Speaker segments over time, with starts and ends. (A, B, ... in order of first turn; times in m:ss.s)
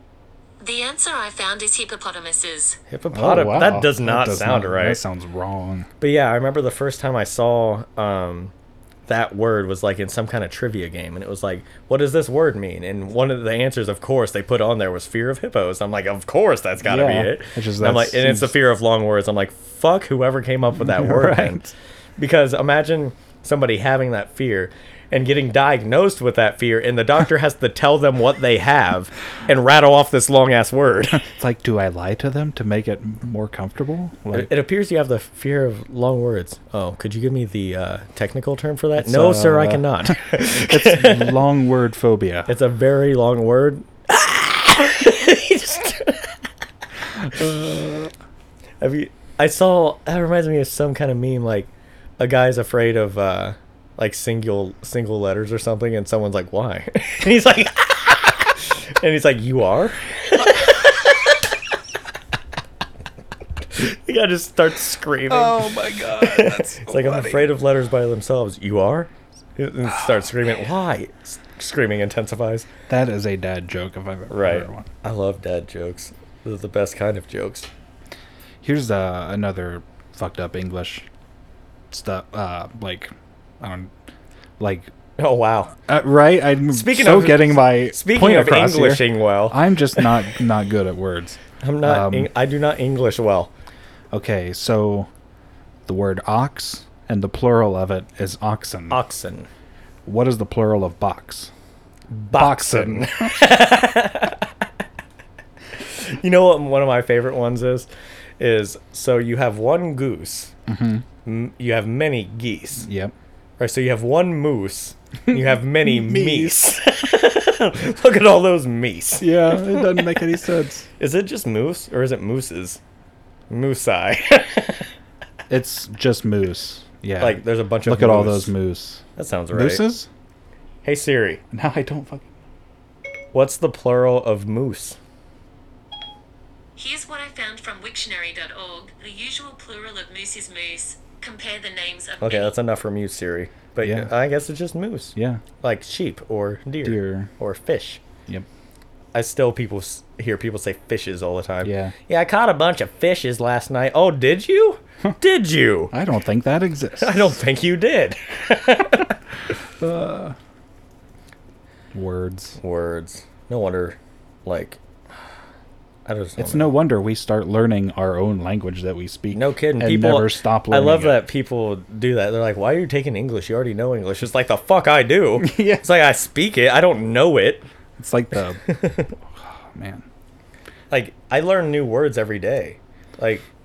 0:00.6-0:02.8 A
0:02.9-0:05.0 B
0:03.1-0:05.9 C
0:06.0-0:08.5 B
0:09.1-0:21.6 B
0:16.8-0:18.6 C
0:20.8-0:21.7 C
0:22.2-0:31.2 B
0:31.2-0:34.5 C
0:34.3-0:41.4 B
0:39.0-0:42.5 C
0:42.5-0:46.4 B
0:47.3-0:48.0 B
0:47.3-0:48.1 C
0:48.8-1:01.6 B
1:03.7-1:12.7 B
1:05.3-1:07.5 C
1:12.9-1:14.9 C
1:14.3-1:17.7 B
1:18.6-1:21.1 C
1:21.9-1:23.9 C
1:24.6-1:24.9 C
1:25.2-1:25.7 B
1:25.9-1:32.3 C
1:26.7-1:30.2 B
1:31.6-1:33.5 B
1:34.1-1:35.1 C
1:35.9-1:39.0 C
1:38.9-1:39.5 B
1:40.1-1:41.5 C
1:42.1-1:44.6 B
1:42.3-1:43.4 C
1:45.7-1:47.9 B
1:48.4-1:50.5 B
1:50.7-1:51.0 C
1:51.2-1:52.9 B
1:52.8-1:53.1 C
1:53.6-2:00.4 B
1:55.3-1:56.6 C
1:59.2-2:00.9 C
2:01.0-2:02.8 B
2:03.5-2:04.9 B
2:05.5-2:10.1 C
2:07.2-2:08.5 B
2:09.2-2:09.8 B
2:10.8-2:11.4 B
2:11.5-2:12.3 C
2:13.3-2:15.0 B
2:16.8-2:22.6 A
2:22.2-2:28.0 B
2:23.8-2:24.1 C
2:25.1-2:25.4 C
2:26.8-2:27.3 C
2:29.1-2:35.9 B
2:31.6-2:31.9 C
2:35.9-2:37.4 C
2:37.0-2:39.2 B
2:39.8-2:40.4 C
2:41.9-2:42.6 C
2:42.6-2:44.8 B
2:46.1-2:46.7 B
2:46.4-2:51.2 C
2:49.3-2:57.6 B
2:55.4-2:55.9 C
2:58.0-2:58.7 C
2:58.6-2:59.1 B
2:59.4-3:00.0 C
3:00.9-3:03.5 B